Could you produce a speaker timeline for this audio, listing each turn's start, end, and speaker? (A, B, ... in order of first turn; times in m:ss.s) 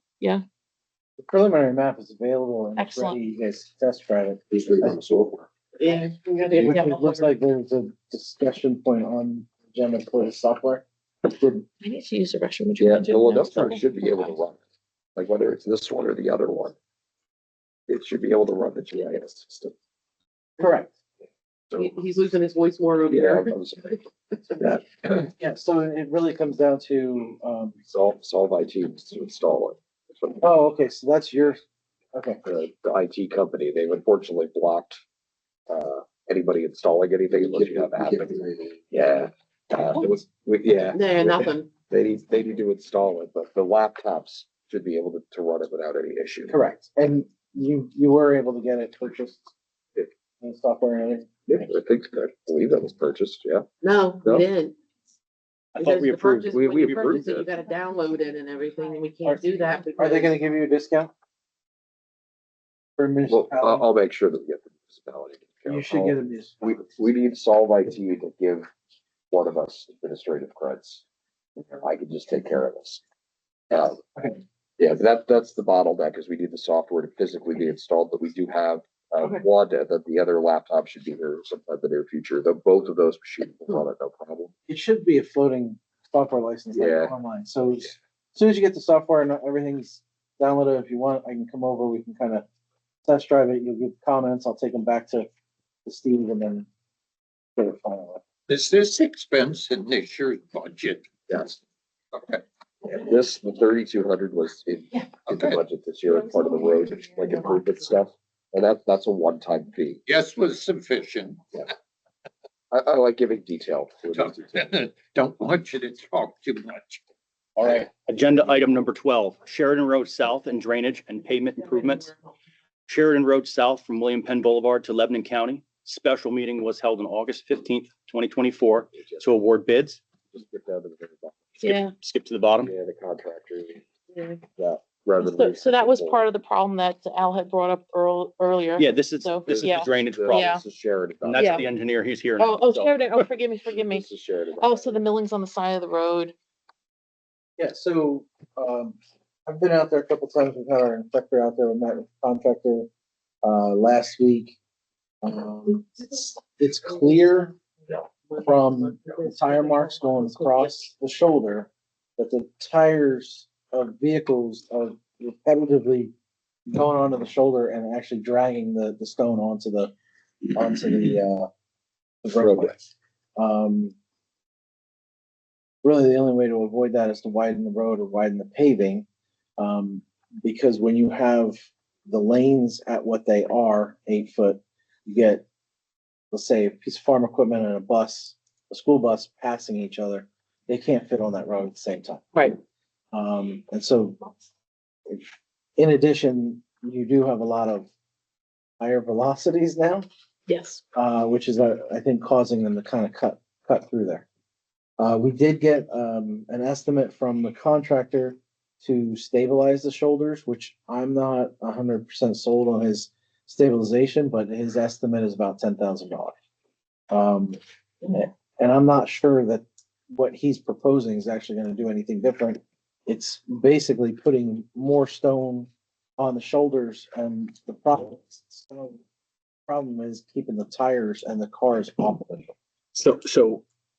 0:01.2-0:05.0 A
0:02.8-0:03.2 B
0:04.5-0:05.5 C
0:05.8-0:07.2 D
0:06.5-0:11.6 A
0:11.8-0:14.3 B
0:12.8-0:14.6 C
0:15.2-0:16.8 C
0:17.9-0:19.7 C
0:20.6-0:21.0 A
0:21.7-0:23.6 D
0:23.1-0:24.0 C
0:24.6-0:25.2 C
0:25.2-0:27.8 A
0:27.9-0:30.4 C
0:30.4-0:31.6 A
0:32.1-0:32.4 A
0:32.4-0:35.0 C
0:35.7-0:46.6 C
0:40.8-0:41.7 D
0:46.5-0:51.3 A
0:51.5-0:53.6 C
0:53.8-0:54.8 D
0:55.7-0:57.5 E
0:55.8-1:00.4 D
0:56.5-0:57.4 C
0:59.2-1:01.1 A
1:03.0-1:03.9 A
1:03.3-1:08.7 C
1:05.6-1:06.8 A
1:09.3-1:11.0 C
1:11.6-1:13.0 C
1:13.7-1:14.0 C
1:14.8-1:24.5 C
1:24.7-1:32.4 A
1:26.7-1:27.1 C
1:33.0-1:35.3 A
1:35.8-1:36.7 A
1:37.6-1:38.2 A
1:38.5-1:41.2 F
1:41.3-1:41.6 C
1:42.1-1:42.4 F
1:42.8-1:50.0 C
1:45.3-1:45.6 F
1:50.0-1:51.4 F
1:52.7-1:54.5 C
1:54.1-1:57.0 F
1:57.7-2:02.1 E
2:02.8-2:10.0 E
2:08.9-2:09.3 C
2:10.3-2:11.5 C
2:11.6-2:11.9 B
2:11.6-2:12.7 E
2:12.6-2:13.8 C
2:14.1-2:14.4 B
2:14.6-2:16.2 C
2:15.2-2:20.6 B
2:18.8-2:20.6 E
2:19.5-2:21.6 C
2:21.2-2:23.2 E
2:21.3-2:21.6 B
2:22.4-2:24.1 B
2:23.7-2:25.0 C
2:24.6-2:26.3 B
2:27.6-2:32.9 A
2:33.4-2:34.6 A
2:35.2-2:37.5 A
2:38.3-2:39.2 D
2:38.4-2:46.1 A
2:46.7-2:49.9 A
2:50.5-2:51.5 A
2:52.2-2:52.8 A
2:52.4-2:52.7 C
2:53.4-2:53.9 A
2:55.8-2:59.0 A
2:59.6-3:05.4 A
3:06.3-3:12.3 A
3:13.1-3:14.2 A
3:15.8-3:17.9 A
3:18.8-3:20.0 A
3:20.5-3:20.8 B
3:20.9-3:24.2 A
3:25.0-3:36.3 A
3:37.1-3:49.0 A
3:49.7-3:52.5 A
3:52.9-3:53.6 E